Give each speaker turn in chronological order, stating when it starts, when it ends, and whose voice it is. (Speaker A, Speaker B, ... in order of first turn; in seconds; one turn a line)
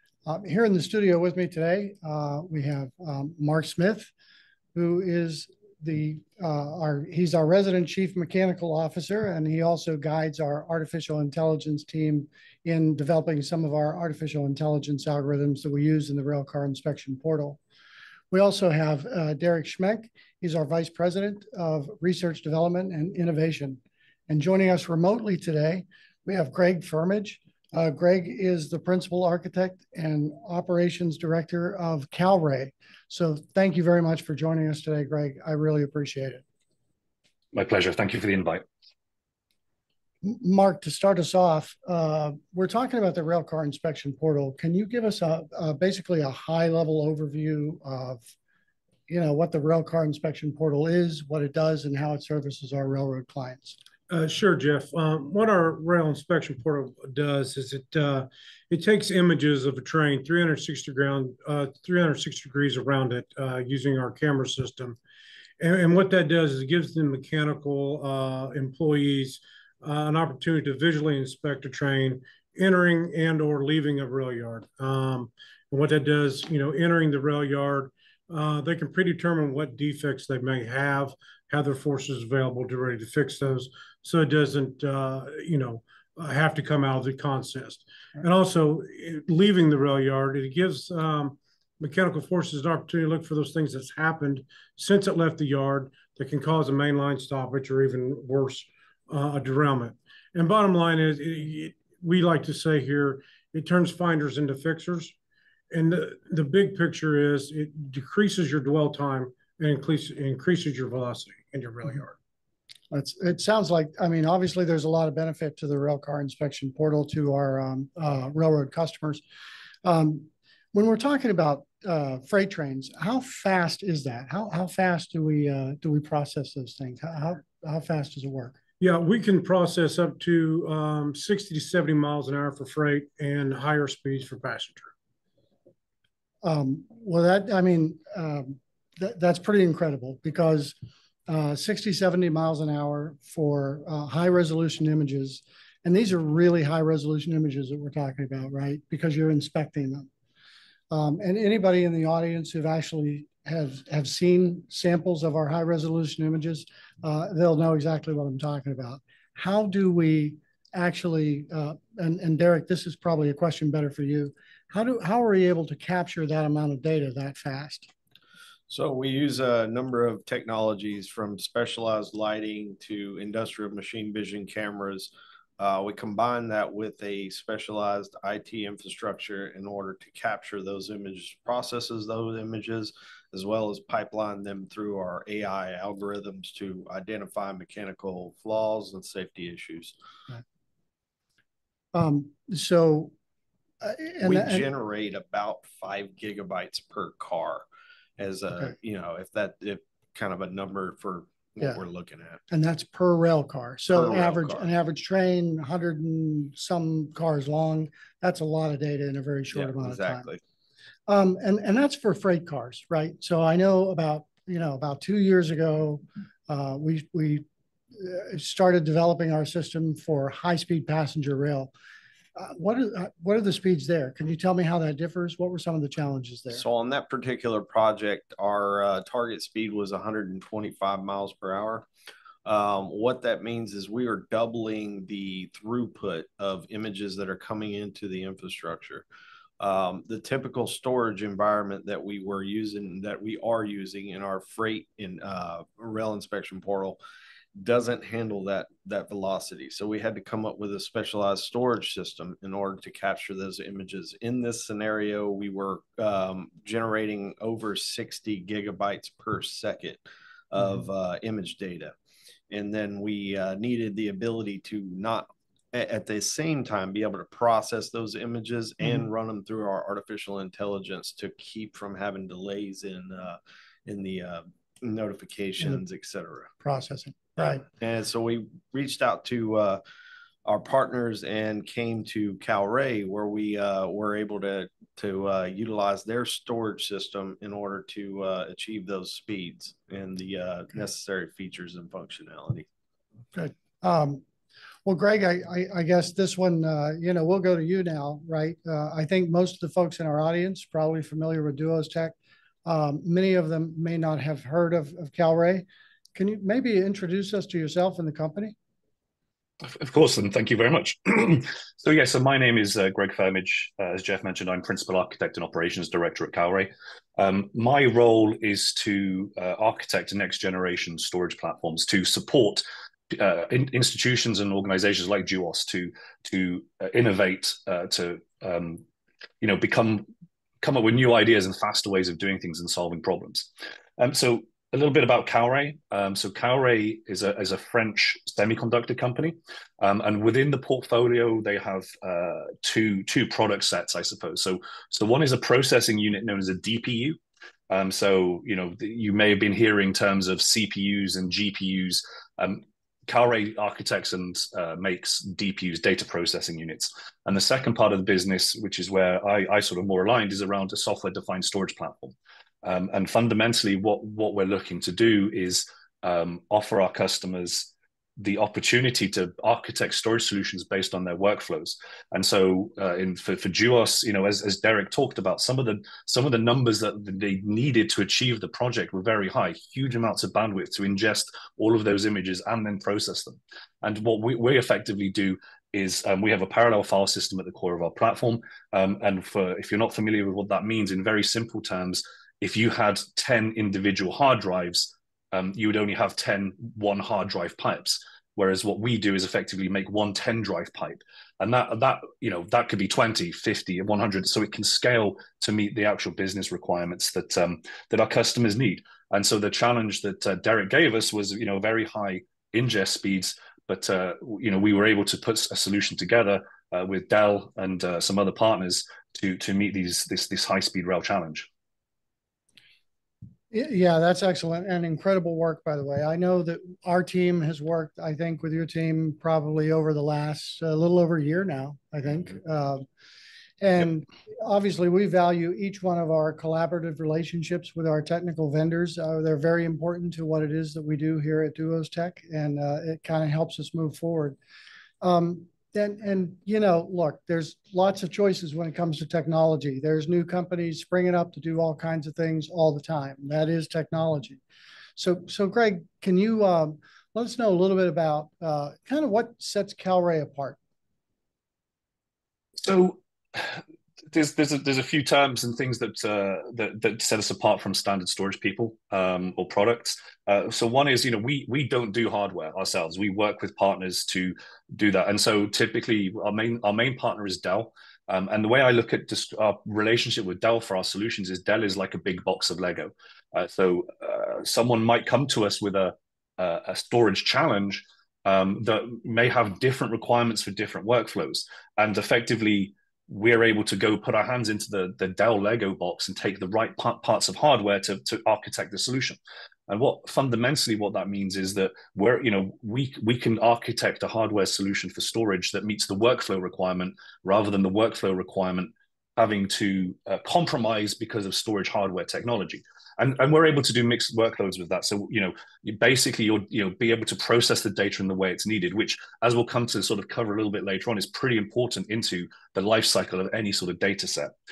Speaker A: 0.3-4.1
Speaker A: 4.7-17.6
Speaker A: 18.3-36.4
Speaker B: 37.5-38.6
Speaker A: 40.2-48.3
Speaker A: 49.1-53.8
Speaker C: 54.1-65.0
Speaker C: 65.6-105.2
Speaker C: 105.7-112.2
Speaker A: 112.9-119.2
Speaker A: 119.8-128.6
Speaker C: 128.8-134.9
Speaker A: 136.4-140.8
Speaker A: 141.3-150.1
Speaker A: 150.9-167.9
Speaker D: 168.7-189.9
Speaker A: 191.9-193.1
Speaker A: 193.8-194.7
Speaker D: 194.2-197.7
Speaker D: 198.2-202.4
Speaker A: 202.5-210.3
Speaker D: 203.9-204.7
Speaker D: 209.5-210.4
Speaker A: 211.1-217.4
Speaker A: 217.9-221.7
Speaker A: 222.4-226.6
Speaker D: 226.5-231.9
Speaker D: 232.4-239.1
Speaker D: 239.6-247.0
Speaker D: 247.6-261.9
Speaker D: 262.5-276.5
Speaker A: 276.6-277.6
Speaker D: 277.8-279.8
Speaker D: 280.4-292.7
Speaker A: 293.3-294.2
Speaker A: 294.9-308.6
Speaker B: 309.6-328.8
Speaker B: 329.4-330.1
Speaker B: 330.6-347.2
Speaker B: 347.7-421.5
Speaker A: 423.5-432.9
Speaker A: 433.6-444.4
Speaker A: 445.0-454.4
Speaker A: 455.0-460.6
Speaker B: 462.6-463.6
Speaker B: 464.1-524.3